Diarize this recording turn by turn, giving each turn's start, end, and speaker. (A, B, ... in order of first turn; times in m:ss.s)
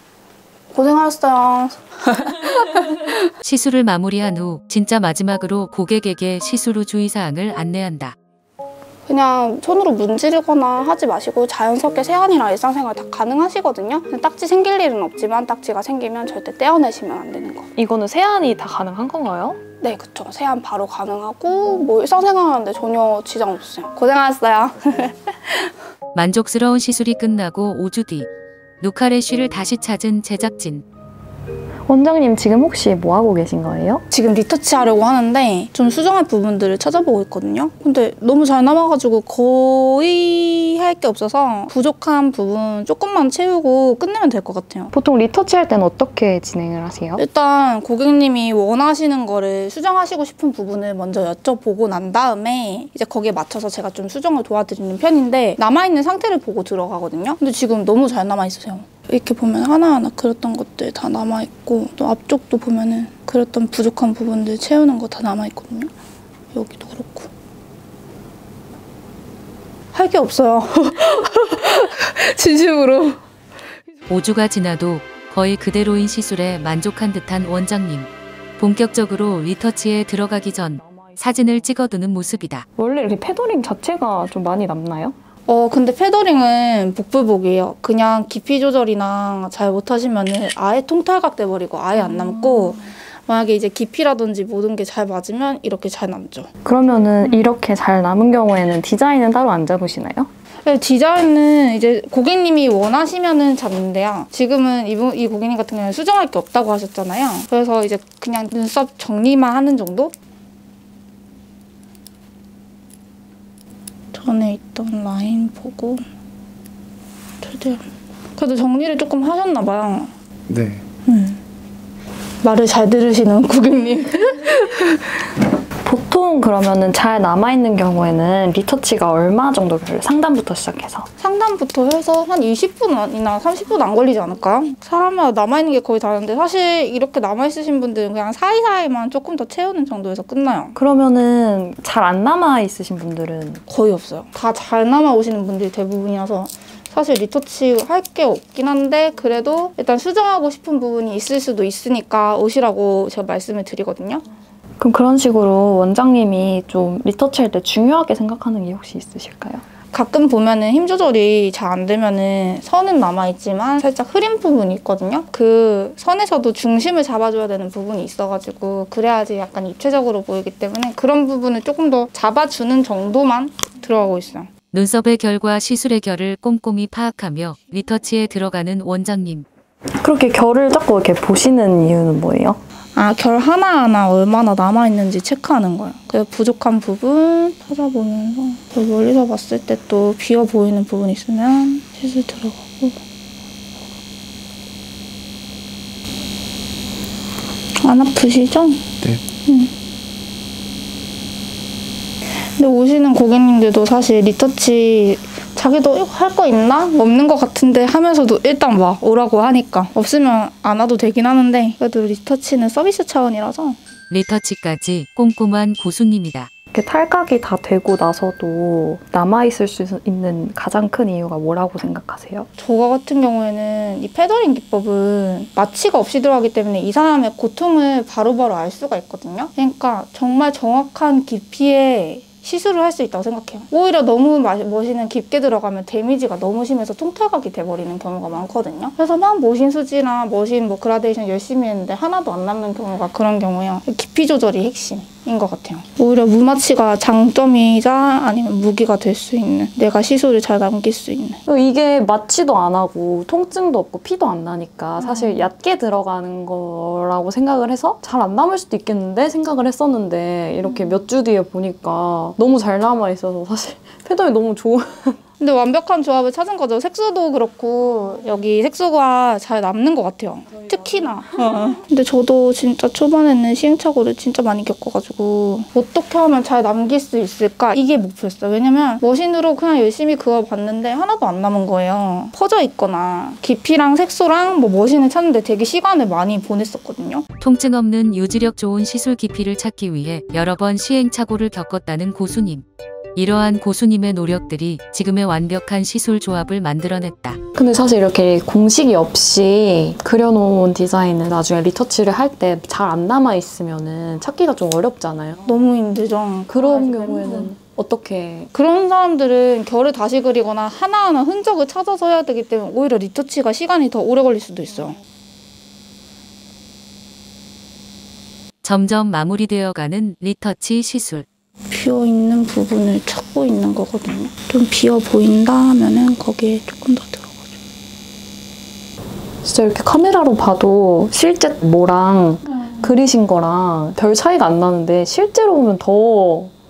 0:00.7-0:03.1 A
0:03.4-0:08.2 B
0:09.1-0:17.7 A
0:17.8-0:19.6 C
0:19.8-0:25.7 A
0:26.1-0:28.3 B
0:28.8-0:30.8 B
0:31.9-0:34.0 C
0:34.1-0:44.9 A
0:44.9-0:47.2 C
0:47.2-1:05.9 A
1:06.5-1:07.3 A
1:09.9-1:13.2 A
1:14.1-1:22.7 B
1:20.5-1:21.6 C
1:22.8-1:25.2 C
1:25.5-1:36.5 A
1:36.6-1:40.3 C
1:37.2-1:37.5 A
1:40.6-1:50.1 A
1:54.1-1:56.0 A
1:57.4-2:00.1 A
2:01.0-2:01.4 A
2:02.4-2:05.2 A
2:05.8-2:11.1 C
2:11.2-2:20.8 A
2:20.8-2:23.6 C
2:23.7-2:34.2 A
2:34.8-2:39.6 C
2:39.9-2:54.5 A
2:54.7-2:59.5 B
3:00.0-3:02.6 C
3:03.0-3:13.0 A
3:17.8-3:18.9 A
3:19.4-3:19.7 A
3:22.6-3:33.8 A
3:34.1-3:36.5 B
3:36.7-3:42.5 C
3:42.6-4:11.4 A
4:11.5-4:25.2 C
4:15.0-4:15.5 A
4:25.4-4:47.2 A
4:47.4-4:57.4 B
4:57.6-5:05.6 C
5:05.4-5:07.5 A
5:06.5-5:08.5 C
5:08.5-5:15.0 A
5:18.6-5:21.2 B
5:21.7-5:27.5 A
5:29.4-5:36.5 C